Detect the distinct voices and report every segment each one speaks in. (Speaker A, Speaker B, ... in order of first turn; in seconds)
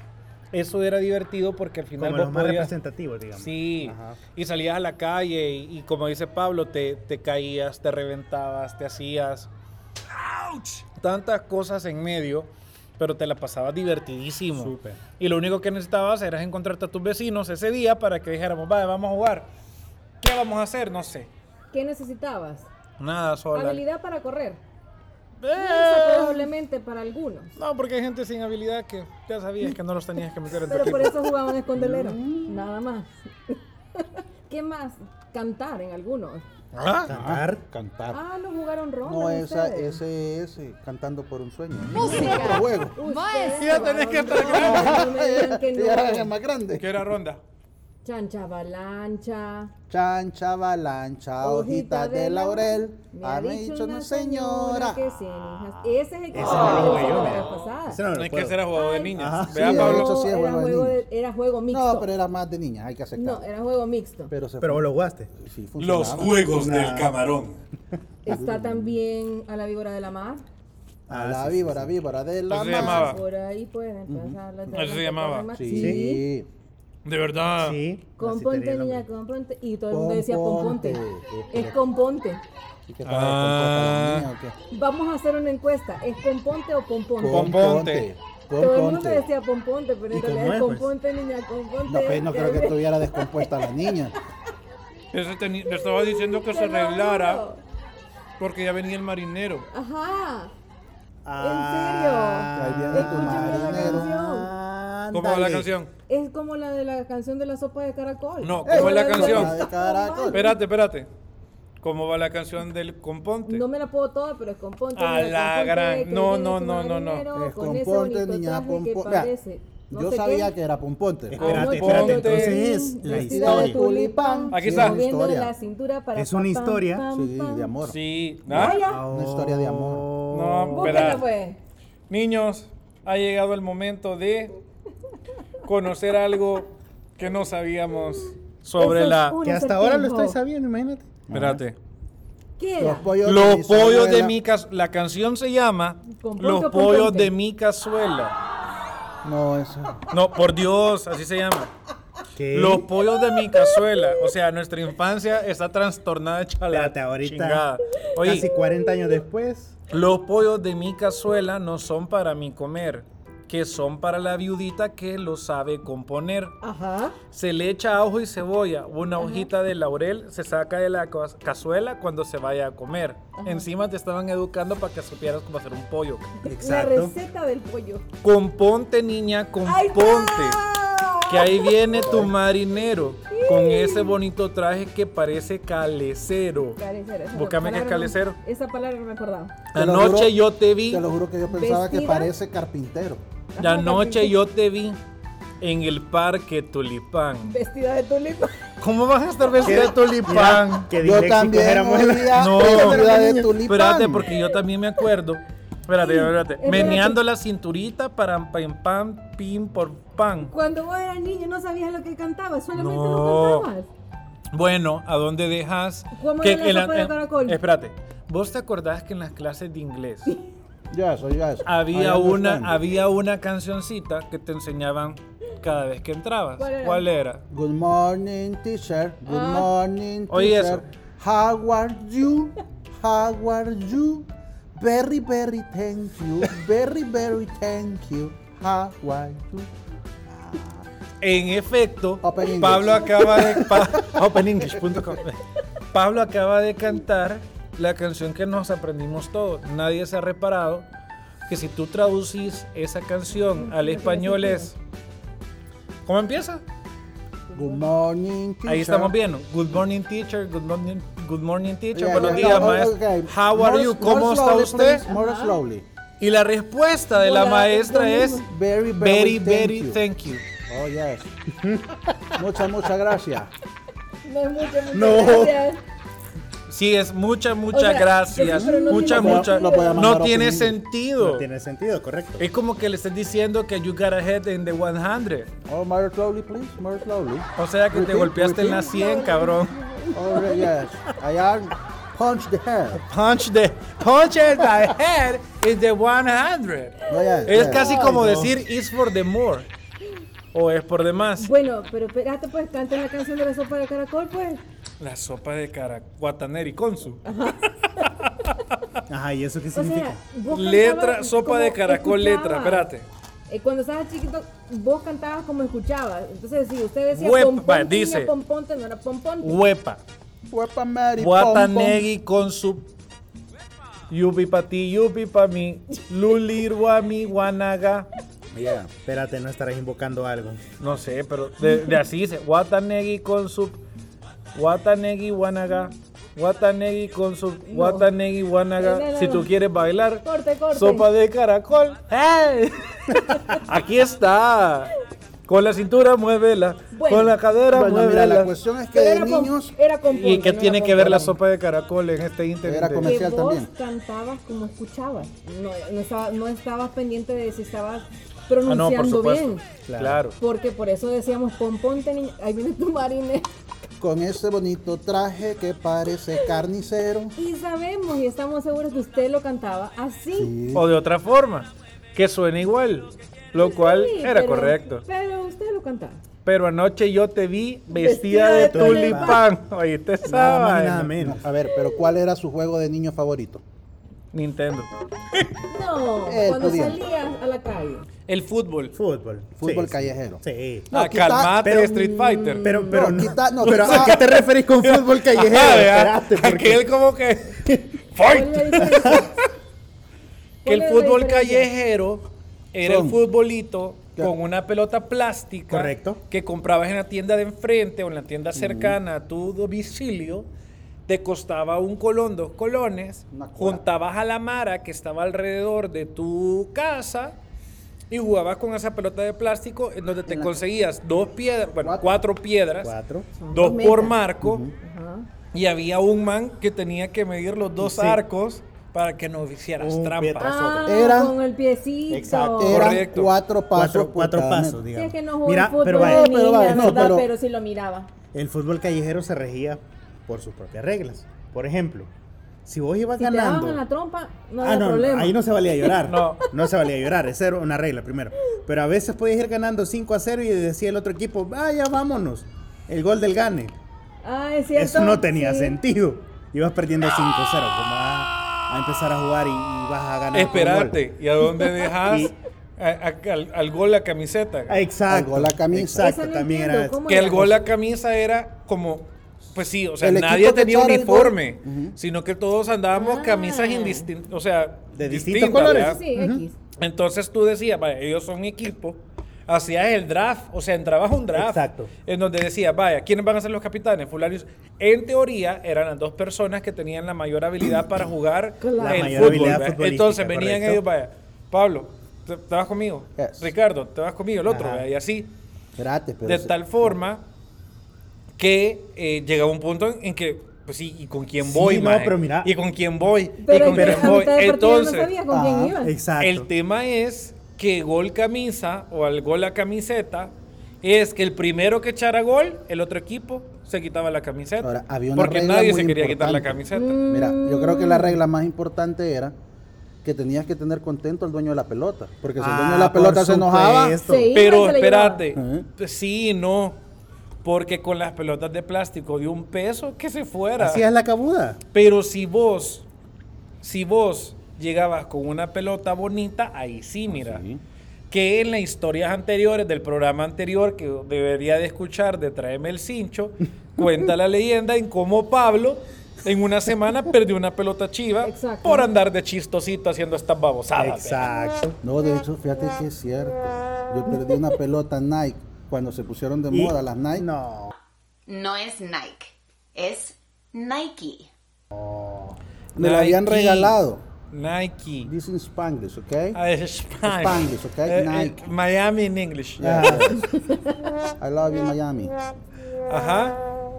Speaker A: 0.5-2.7, 3.3-9.5, 10.9-19.5, 20.2-21.3, 23.0-23.8, 25.4-26.5, 27.6-31.1, 36.7-37.1, 43.4-45.0, 46.8-47.4, 58.1-60.1, 65.8-67.6, 72.5-73.2, 74.7-75.5, 77.0-77.8, 83.0-84.3, 87.3-88.1, 95.1-97.4, 98.4-99.7, 105.1-105.9, 108.4-109.5, 110.3-111.1, 111.8-113.6, 114.9-117.2, 121.3-122.6, 124.5-125.0, 127.8-128.8, 130.3-131.2, 132.1-134.5, 135.6-139.4, 141.3-141.8, 143.2-148.4, 150.1-151.7, 152.5-158.4, 159.9-166.6, 167.3-176.3, 178.2-180.6, 181.3-186.8, 187.3-188.3, 189.7-191.1, 193.6-195.0, 195.6-197.6, 198.8-200.9, 202.3-203.1, 203.6-210.5, 212.8-213.7, 214.5-220.3, 221.6-227.4, 230.3-230.8, 241.2-245.4, 245.9-250.8, 251.5-254.7, 256.1-256.6, 258.7-265.1, 266.2-268.4, 269.0-270.4, 276.7-281.5, 282.4-285.5, 287.6-289.8, 293.0-299.7, 300.5-301.5, 305.0-307.2, 308.0-309.0, 310.5-313.1, 317.1-318.3, 319.4-320.0, 321.2-322.9, 324.1-328.1, 330.8-333.8, 334.5-344.9, 345.5-348.5, 350.1-353.1, 358.6-360.4, 370.7-375.0, 376.4-381.1, 384.3-385.5, 388.3-388.9, 390.9-392.7, 393.6-399.1, 400.6-410.5, 411.1-417.4, 418.1-422.9, 423.5-424.6, 425.5-430.6, 432.7-433.3, 446.1-446.4, 460.3-464.7, 467.1-476.0, 476.8-495.3, 496.2-497.2, 498.4-505.1, 506.2-517.0, 524.3-526.8, 527.4-530.8, 531.7-532.9, 533.6-537.4, 538.1-551.3, 562.8-563.8, 564.3-565.1, 566.3-569.9, 572.9-573.4
Speaker B: 2.0-4.2, 14.5-15.0, 37.1-37.6, 56.3-58.6, 59.1-59.8, 64.6-65.3, 66.5-67.2, 71.1-71.9, 75.7-76.0, 77.6-79.0, 90.1-90.9, 101.2-105.7, 121.3-123.8, 126.1-127.0, 128.5-131.2, 139.4-141.2, 152.3-152.9, 156.7-157.6, 158.2-159.7, 176.4-177.1, 199.6-203.5, 271.6-272.3, 274.9-275.6, 281.2-282.5, 297.9-298.5, 309.1-310.2, 329.1-330.6, 359.9-360.2, 378.5-379.4, 380.2-381.4, 388.9-390.9, 391.6-392.1, 392.6-396.9, 397.6-397.9, 398.8-399.3, 405.7-406.2, 422.8-423.3, 427.8-428.2, 429.8-431.2, 432.1-433.0, 433.7-437.1, 438.3-442.1, 442.6-443.8, 444.6-453.7, 454.7-461.0, 461.9-462.3, 464.7-467.4, 474.9-476.4, 481.3-481.9, 488.8-490.8, 494.5-494.9, 501.4-502.5, 503.5-504.3, 505.8-506.5, 522.4-524.3, 530.6-531.6, 550.8-551.8, 556.5-557.7, 561.7-562.4, 569.6-570.1
Speaker C: 21.7-22.7, 23.5-24.6, 25.6-27.6, 30.7-36.4, 38.1-40.0, 41.9-46.3, 48.0-49.7, 51.4-58.0, 58.7-62.1, 63.1-64.3, 68.2-70.4, 72.7-76.2, 78.2-82.4, 84.7-87.6, 88.6-93.7, 96.2-97.6, 99.7-100.5, 101.4-104.5, 106.1-110.6, 113.5-120.5, 121.4-127.7, 128.5-129.0, 130.7-131.6, 138.8-140.4, 142.6-143.1, 146.1-147.3, 166.6-167.2, 169.2-169.5, 173.4-173.7, 176.4-178.1, 179.6-181.7, 183.3-184.2, 186.8-189.6, 191.5-192.3, 193.6-194.3, 197.4-198.6, 206.0-207.2, 210.5-213.9, 216.1-217.6, 226.6-227.1, 229.2-229.7, 253.3-254.7, 257.5-257.9, 262.2-262.8, 265.1-265.6, 267.2-268.4, 274.2-275.8, 277.7-280.0, 288.8-290.7, 297.1-298.1, 301.4-304.6, 307.2-308.1, 309.7-312.9, 313.5-319.6, 337.7-338.1, 338.8-339.5, 340.2-341.1, 343.3-343.6, 346.9-347.4, 348.9-351.4, 353.0-359.6, 360.4-363.5, 367.4-370.5, 373.6-376.2, 377.9-379.4, 385.7-388.1, 392.0-393.2, 398.2-399.4, 400.6-401.7, 423.4-424.2, 424.8-425.3, 430.4-432.9, 434.9-438.1, 443.2-446.0, 454.2-455.8, 465.9-467.6, 472.9-474.1, 475.6-476.6, 488.6-489.5, 503.4-505.9, 516.7-518.2, 524.0-525.2, 548.2-548.9, 570.1-570.7
Speaker D: 31.8-32.6, 37.1-38.2, 39.0-43.0, 44.5-47.0, 49.9-55.0, 59.5-61.0, 61.7-63.4, 64.3-66.4, 68.2-69.0, 71.1-73.2, 74.1-74.4, 75.5-76.5, 79.9-81.8, 82.9-84.5, 87.2-89.3, 91.8-94.2, 102.5-104.1, 108.7-110.4, 117.3-119.3, 119.9-121.5, 123.1-125.5, 127.1-128.0, 129.0-130.1, 141.3-141.6, 142.8-144.3, 149.2-150.1, 181.9-182.3, 189.7-193.2, 201.0-204.3, 220.9-222.8, 227.5-239.7, 240.2-240.8, 242.2-244.2, 257.5-259.1, 261.9-265.8, 268.4-270.0, 270.7-271.3, 272.3-273.5, 278.4-280.8, 285.7-289.0, 290.1-293.0, 297.1-297.9, 320.5-322.0, 328.5-328.9, 347.7-349.7, 352.6-353.7, 364.0-367.3, 370.3-370.9, 381.1-383.6, 386.2-387.0, 389.6-391.6, 392.9-394.2, 402.8-403.2, 408.5-409.0, 413.3-413.8, 420.3-420.6, 421.6-422.2, 424.4-424.7, 430.9-431.3, 432.6-434.8, 435.9-437.3, 465.1-466.1, 470.0-471.9, 493.2-493.5, 495.8-496.9, 505.3-505.8, 514.6-519.4, 520.0-524.0, 525.3-525.6, 537.1-537.6, 551.8-557.3, 562.8-564.0, 565.0-566.4, 567.0-568.4, 569.6-570.3, 571.2-572.2
Speaker E: 41.9-43.7, 558.3-561.3